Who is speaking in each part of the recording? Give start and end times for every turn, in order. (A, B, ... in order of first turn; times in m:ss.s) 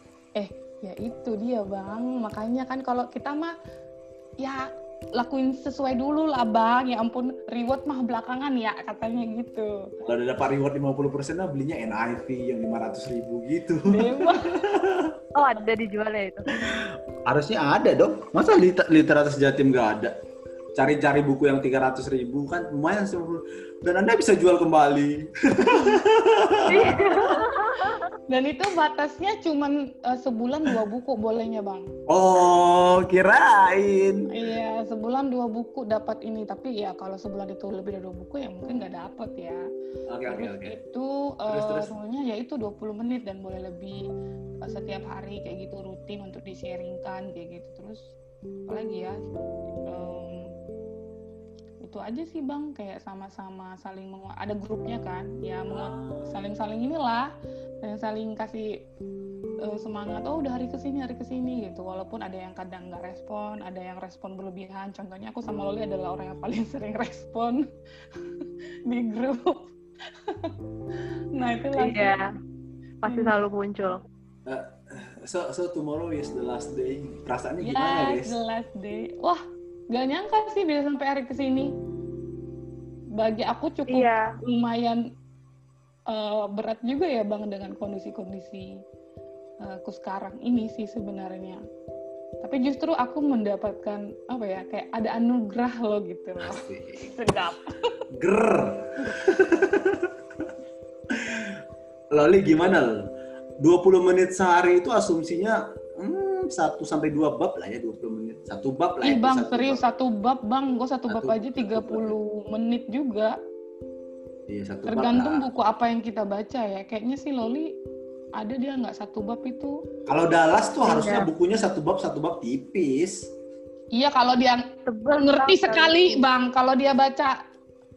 0:00.4-0:03.5 A
0:05.2-0:09.7 A
0:10.0-0:15.2 B
0:13.9-0:14.6 A
0:15.4-0:16.7 C
0:16.5-0:20.1 B
0:20.8-0:27.3 B
0:25.6-0:26.0 A
0:26.7-0:28.1 C
0:26.8-0:27.4 A
0:28.3-0:31.9 A
0:32.1-0:34.3 B
0:34.3-0:39.6 A
0:40.1-0:40.8 B
0:40.3-0:44.0 A
0:41.5-0:41.9 B
0:44.6-0:48.1 A
0:48.7-0:49.2 A
0:49.9-0:50.5 A
0:51.8-0:57.3 A
0:55.7-0:56.4 B
0:57.8-0:58.7 A
0:59.6-1:07.6 A
1:08.9-1:09.7 A
1:11.4-1:12.2 A
1:11.8-1:12.3 C
1:13.0-1:14.0 C
1:13.1-1:13.4 A
1:14.5-1:18.4 B
1:17.6-1:21.7 A
1:23.2-1:25.0 A
1:23.9-1:24.3 C
1:26.1-1:28.7 A
1:29.6-1:31.6 A
1:32.4-1:37.9 A
1:36.4-1:37.1 B
1:38.1-1:40.5 B
1:41.1-1:41.6 B
1:42.1-1:42.9 B
1:43.6-1:49.8 B
1:49.0-1:53.4 A
1:51.1-1:52.2 B
1:54.5-1:55.5 B
1:54.9-1:57.7 A
1:58.4-1:59.8 A
2:00.1-2:03.3 B
2:00.9-2:01.3 C
2:03.9-2:04.6 A
2:04.9-2:06.3 C
2:05.2-2:07.4 A